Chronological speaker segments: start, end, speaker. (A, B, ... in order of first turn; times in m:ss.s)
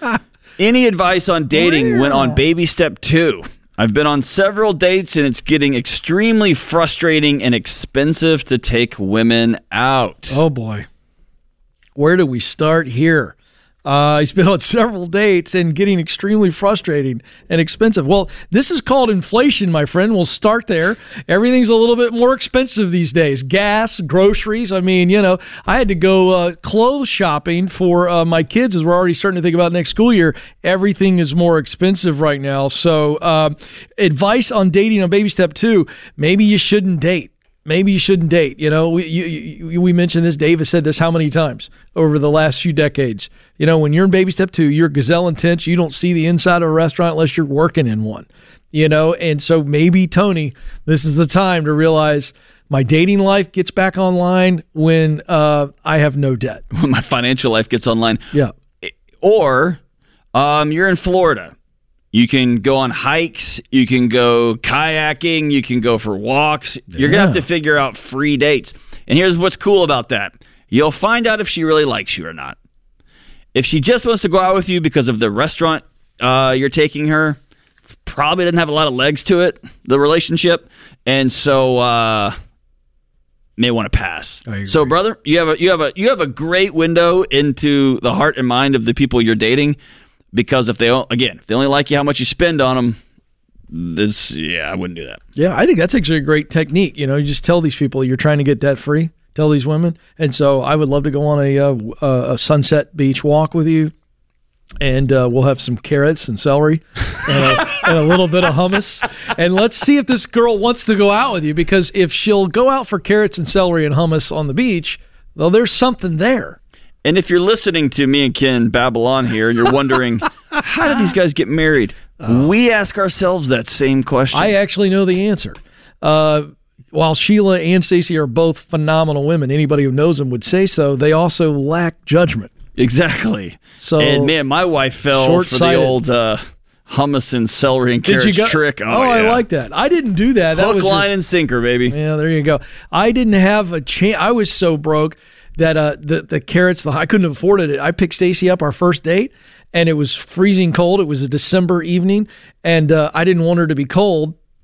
0:00.6-0:10.4 A
0:10.3-0:10.9 B
0:12.0-0:13.3 B
0:13.8-0:56.6 B
0:56.7-0:59.8 A
1:00.3-1:01.5 A
1:02.1-1:12.6 A
1:06.9-1:07.4 B
1:13.5-1:17.4 A
1:17.9-1:22.4 A
1:23.6-1:29.8 A
1:24.4-1:24.9 B
1:30.3-1:33.0 A
1:33.7-1:35.2 A
1:35.4-1:43.9 B
1:44.8-1:56.6 B
1:57.0-2:04.5 A
2:02.2-2:02.5 B
2:04.3-2:12.5 B
2:12.8-2:19.4 A
2:13.8-2:14.3 B
2:15.1-2:16.0 B
2:18.0-2:21.1 B
2:20.5-2:21.9 A
2:21.9-2:34.4 B